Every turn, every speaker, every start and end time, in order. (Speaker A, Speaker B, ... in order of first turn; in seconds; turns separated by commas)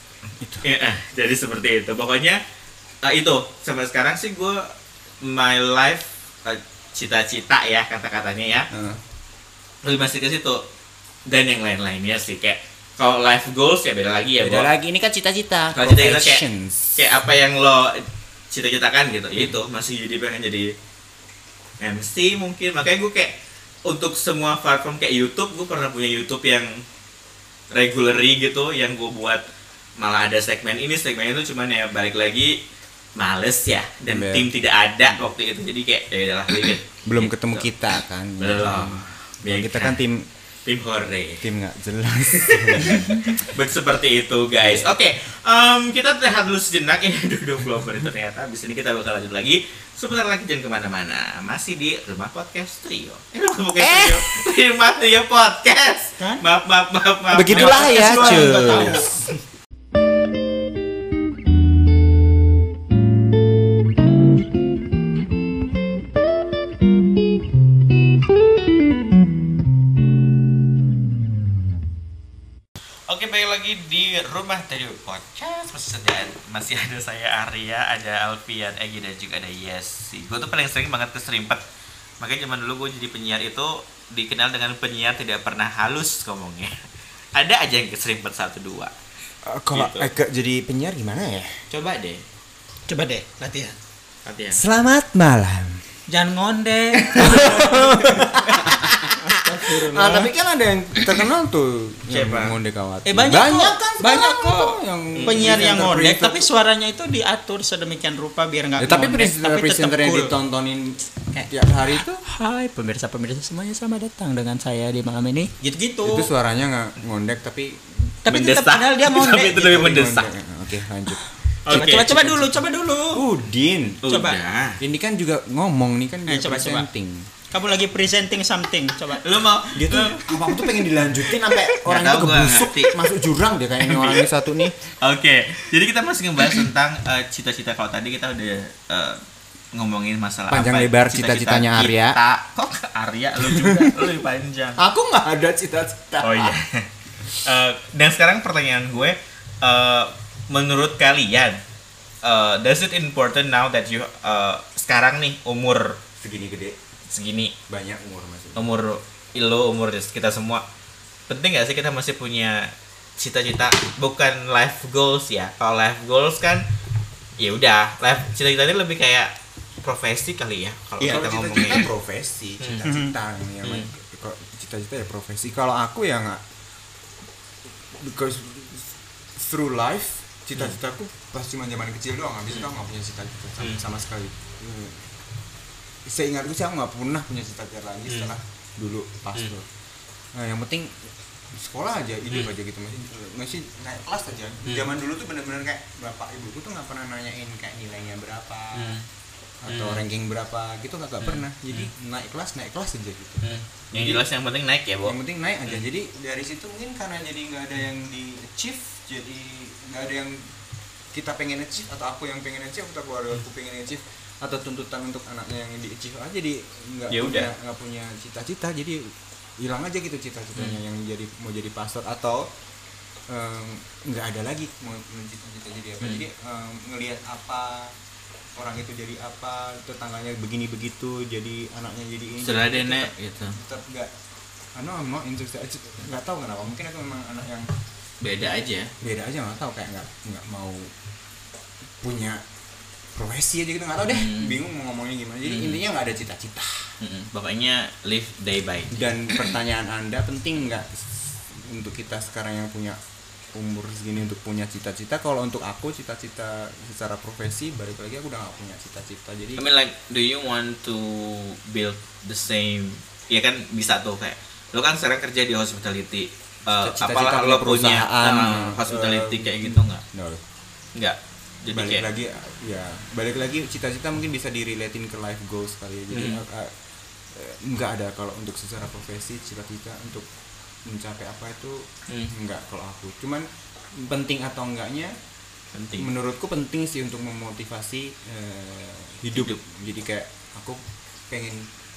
Speaker A: 0.4-0.7, Speaker B: 0.6-2.4, Speaker B: 3.0-4.7, Speaker B: 5.2-8.7, Speaker A: 8.7-9.0, Speaker B: 9.8-10.6, Speaker B: 11.3-14.7, Speaker A: 14.4-17.1, Speaker B: 15.8-16.4, Speaker B: 17.0-20.7, Speaker B: 21.8-26.8, Speaker B: 27.7-29.4, Speaker B: 30.0-32.6, Speaker B: 33.2-37.7, Speaker A: 34.1-34.5, Speaker A: 37.1-40.3, Speaker B: 38.4-40.0, Speaker B: 40.7-41.5, Speaker A: 41.4-43.4, Speaker B: 42.3-59.1, Speaker A: 44.6-44.9, Speaker A: 53.8-54.2, Speaker C: 56.2-56.4, Speaker A: 57.3-59.2, Speaker C: 57.5-59.3, Speaker B: 73.1-81.6, Speaker B: 82.2-86.8, Speaker B: 87.3-88.9, Speaker A: 89.5-91.6, Speaker B: 89.7-90.1, Speaker B: 91.7-92.2, Speaker C: 92.9-93.8, Speaker B: 94.2-94.6, Speaker A: 94.5-95.8, Speaker C: 96.1-100.3, Speaker A: 97.0-106.5, Speaker B: 102.1-102.6, Speaker C: 103.1-110.4, Speaker B: 105.2-105.6, Speaker A: 108.8-112.2, Speaker C: 112.2-116.3, Speaker A: 116.0-118.1, Speaker C: 118.2-119.9, Speaker B: 118.3-120.3, Speaker A: 119.6-122.5, Speaker B: 121.7-122.2, Speaker C: 121.7-123.2, Speaker A: 123.1-124.0, Speaker B: 124.0-124.8, Speaker C: 124.1-124.4, Speaker A: 124.8-127.3, Speaker C: 126.3-126.9, Speaker C: 127.5-129.2, Speaker B: 129.2-130.3, Speaker A: 129.7-134.8, Speaker B: 131.8-133.1, Speaker B: 133.8-134.3, Speaker B: 135.0-139.2, Speaker B: 139.7-144.8, Speaker A: 140.5-142.2, Speaker A: 143.4-144.1, Speaker A: 144.8-146.6, Speaker B: 146.2-151.6, Speaker B: 152.2-156.0, Speaker A: 156.2-156.8, Speaker B: 157.1-157.5, Speaker A: 157.7-158.7, Speaker B: 158.6-160.6, Speaker B: 161.3-166.7, Speaker B: 167.4-171.9, Speaker A: 171.0-176.4, Speaker B: 172.6-172.9, Speaker C: 172.8-173.1, Speaker B: 173.6-173.9, Speaker A: 178.0-185.1, Speaker A: 186.1-189.7, Speaker B: 188.1-188.3, Speaker A: 190.3-199.0, Speaker B: 198.8-199.1, Speaker A: 199.6-204.2, Speaker B: 199.7-200.0, Speaker B: 201.2-201.9, Speaker B: 203.4-205.2, Speaker A: 205.1-210.5, Speaker A: 211.1-222.5, Speaker B: 217.1-217.5, Speaker A: 223.3-227.9, Speaker A: 228.6-234.1, Speaker B: 232.4-233.6, Speaker A: 234.8-237.7, Speaker B: 238.2-238.9, Speaker A: 239.0-240.9, Speaker A: 242.0-242.4, Speaker A: 243.1-246.9, Speaker B: 244.1-244.6, Speaker B: 245.5-245.8, Speaker B: 247.0-249.5, Speaker A: 248.9-253.0, Speaker A: 253.6-259.7, Speaker B: 259.6-270.0, Speaker A: 266.7-270.4, Speaker B: 270.9-272.1, Speaker A: 271.7-276.7, Speaker B: 276.1-276.4, Speaker A: 277.3-280.3, Speaker A: 280.9-283.5, Speaker A: 284.0-285.1, Speaker B: 285.7-286.1, Speaker A: 286.0-291.7, Speaker B: 289.3-289.6